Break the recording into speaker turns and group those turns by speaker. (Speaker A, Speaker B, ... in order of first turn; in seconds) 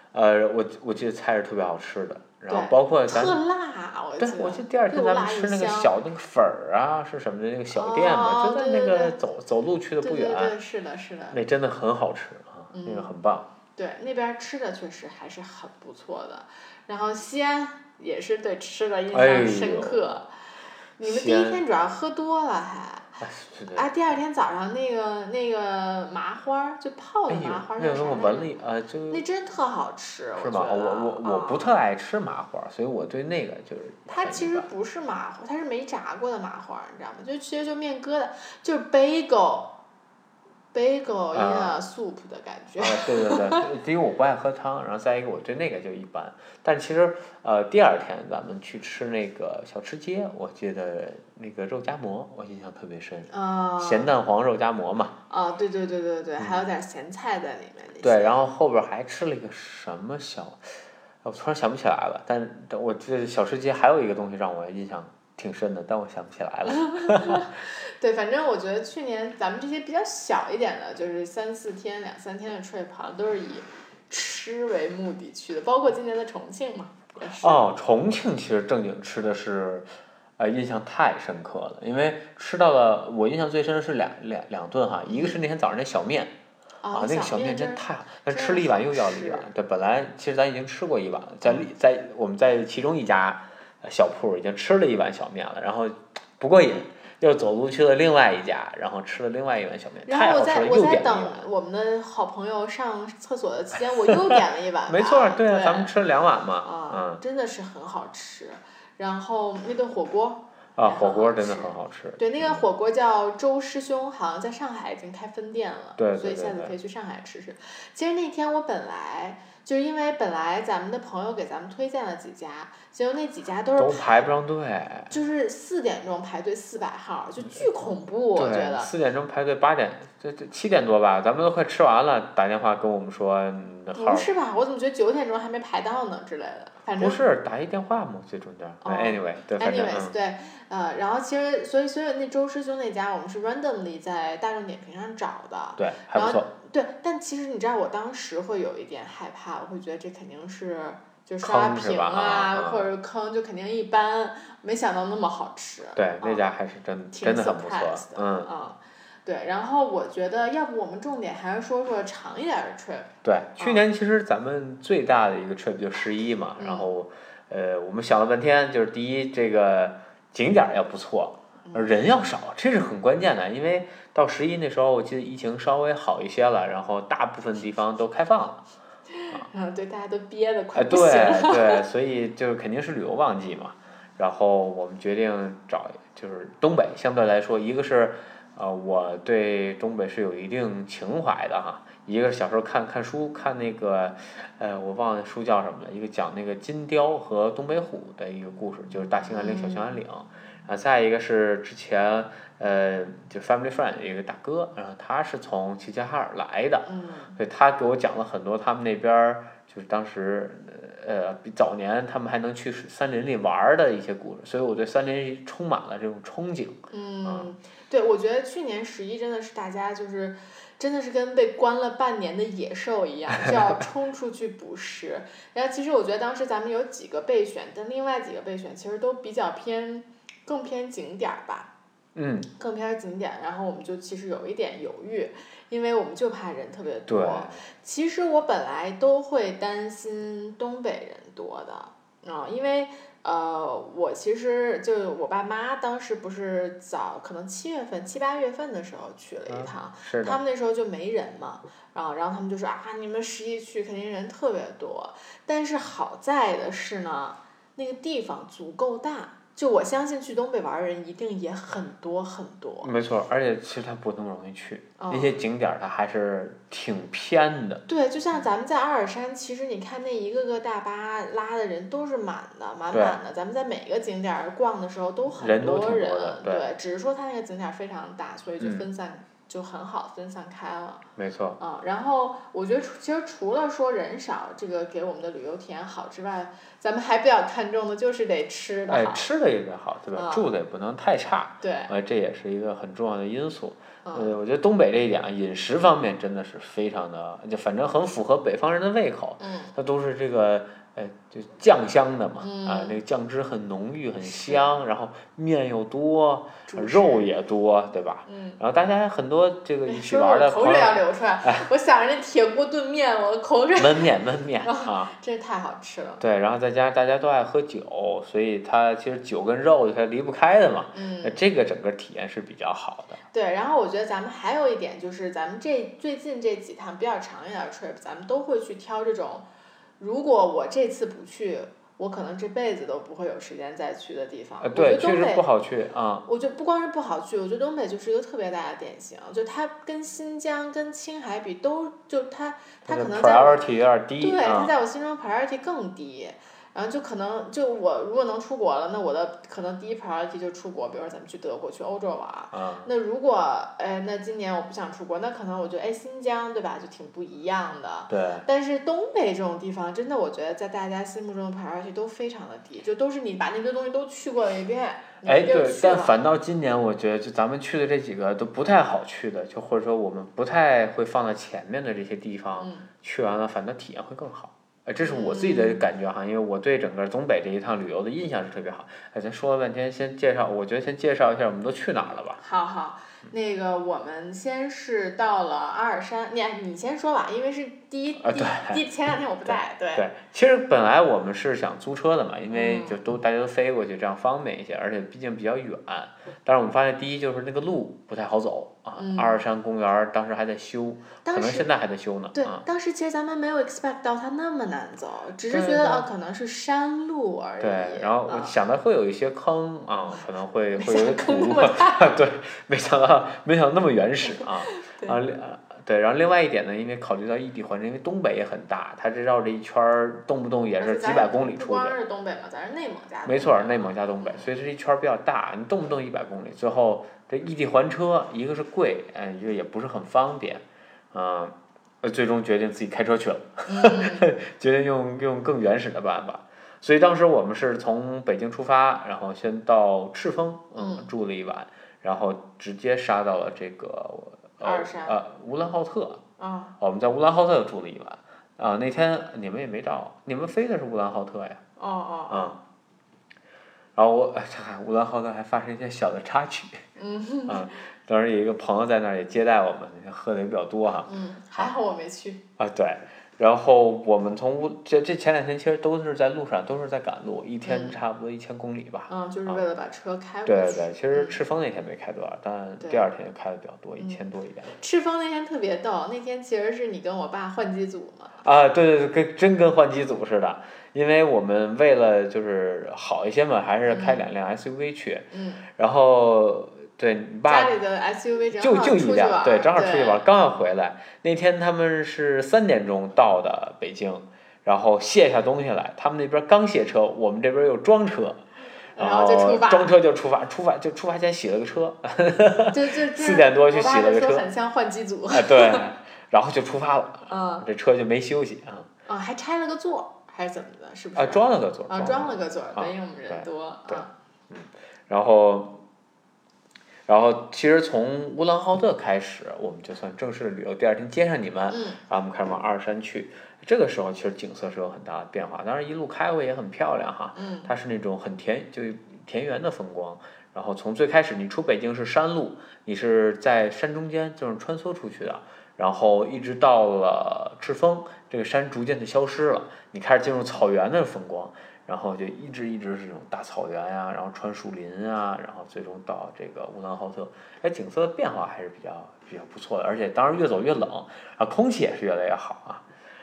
Speaker A: 0.1-3.4, 4.2-10.5, 11.3-13.5, 19.1-20.2, 21.0-21.6, 23.2-23.9, 27.3-29.2, 30.4-34.7, 41.3-41.8, 42.8-55.2, 56.4-56.7, 58.0-60.6, 61.2-67.5, 77.2-86.3, 86.9-101.5, 104.0-107.2, 110.8-112.7, 116.0-116.8, 123.8-125.1, 128.3-134.3, 137.0-140.2, 145.8-146.5, 151.4-152.9, 155.9-158.5, 163.2-178.6, 180.8-217.5, 232.2-232.5, 237.1-237.6, 249.5-250.4, 262.8-267.8, 272.9-273.2, 275.4-276.7, 278.6-278.9, 281.2-281.6, 288.9-311.6, 313.8-315.1, 316.2-323.2, 334.6-336.3, 342.9-344.7, 352.5-352.9, 358.1-358.5, 365.2-382.4, 388.2-388.8, 389.4-402.6, 405.5-406.1, 407.6-422.0, 423.2-446.2, 446.8-451.6, 452.3-452.6, 454.0-456.8, 457.5-461.7, 462.6-469.6, 470.4-474.8, 478.4-487.8, 488.6-498.4, 499.0-504.5, 505.3-508.9, 511.1-515.8, 517.1-552.9
Speaker B: 2.5-6.0, 7.7-9.2, 10.0-11.4, 12.7-13.1, 13.8-20.3, 21.0-23.2, 23.7-28.5, 29.1-31.7, 34.1-39.8, 40.7-43.7, 53.3-54.1, 55.3-58.4, 66.7-77.6, 85.1-85.4, 86.8-89.5, 100.1-106.0, 106.6-124.3, 125.1-128.9, 133.9-137.2, 138.8-156.5, 157.1-163.8, 166.6-166.9, 171.7-172.0, 179.1-181.8, 199.3-200.0, 206.8-207.4, 216.9-231.7, 232.6-262.9, 265.0-265.4, 267.9-281.0, 281.6-289.3, 290.1-290.5, 291.6-291.9, 294.1-294.4, 299.4-299.8, 302.4-303.0, 304.2-304.7, 306.7-307.3, 308.3-308.6, 309.9-316.2, 320.9-321.4, 323.3-329.5, 330.0-335.4, 336.3-343.6, 344.2-366.1, 372.6-372.9, 375.0-375.9, 382.4-390.1, 392.5-393.0, 399.0-399.4, 401.2-401.7, 402.4-408.6, 410.8-412.2, 414.2-415.2, 420.8-424.4, 433.7-434.3, 440.8-441.1, 444.6-445.2, 446.4-446.7, 451.8-452.6, 457.0-457.8, 461.1-462.4, 467.6-468.0, 469.1-471.4, 472.8-473.1, 474.8-478.4, 483.9-484.3, 485.3-485.6, 487.5-490.3, 499.0-500.0, 502.7-505.9, 507.3-507.7, 509.1-514.1, 521.7-522.0, 527.4-527.7